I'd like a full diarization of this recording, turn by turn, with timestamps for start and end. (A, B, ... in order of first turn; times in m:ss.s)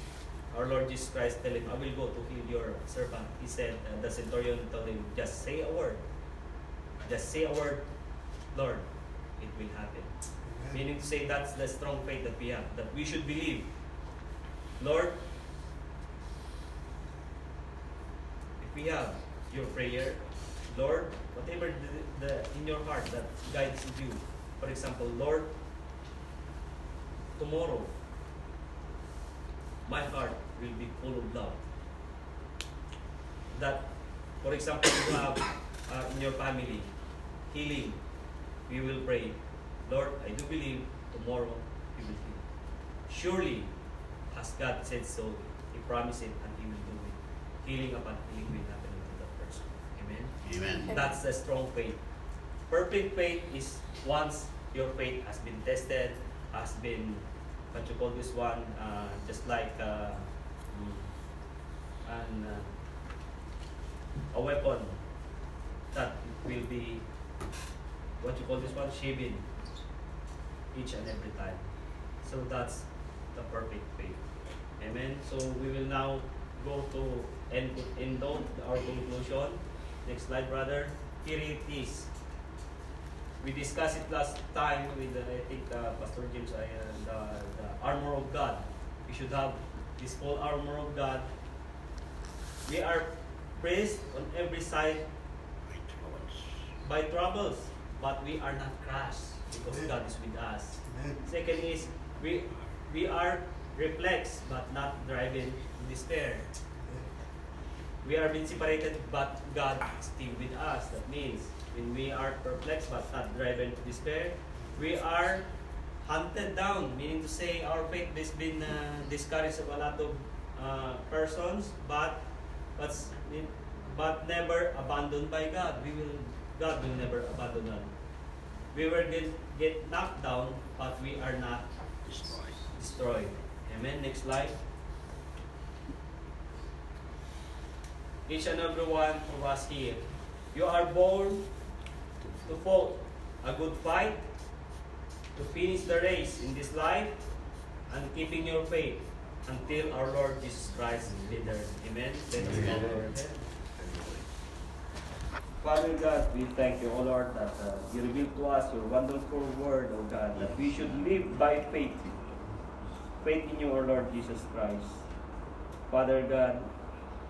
0:00.5-0:06.0 A
0:07.0-0:07.9 A
0:08.5-0:08.9 A
0:09.4-0:10.1 A
0:10.7-0:13.7 A
0:14.8-0:15.2 A
0:18.6-0:25.6 A
0:27.4-0:27.9 A
0:29.9-0:31.6 A
0:33.5-0:36.9 A
0:37.5-0:38.0 A
0:38.7-0:42.4 A
0:43.1-0:43.7 A
0:44.3-0:52.0 A
0:50.4-0:50.9 B
0:52.7-1:01.1 A
1:02.0-1:02.7 A
1:04.3-1:05.0 A
1:05.9-1:07.0 A
1:08.2-1:09.4 A
1:10.7-1:11.6 A
1:12.2-1:14.3 A
1:14.8-1:22.1 A
1:23.4-1:31.3 A
1:32.6-1:35.1 A
1:35.6-1:36.7 B
1:36.8-1:46.5 A
1:48.0-1:55.5 A
1:56.0-2:07.9 A
2:08.7-2:11.7 A
2:12.0-2:12.7 B
2:12.8-2:14.6 A
2:18.3-2:21.5 A
2:22.4-2:24.2 A
2:25.3-2:27.3 A
2:27.9-2:33.4 A
2:32.5-2:32.8 B
2:33.7-2:34.2 B
2:35.6-2:42.2 A
2:43.2-2:45.0 A
2:45.9-2:46.7 A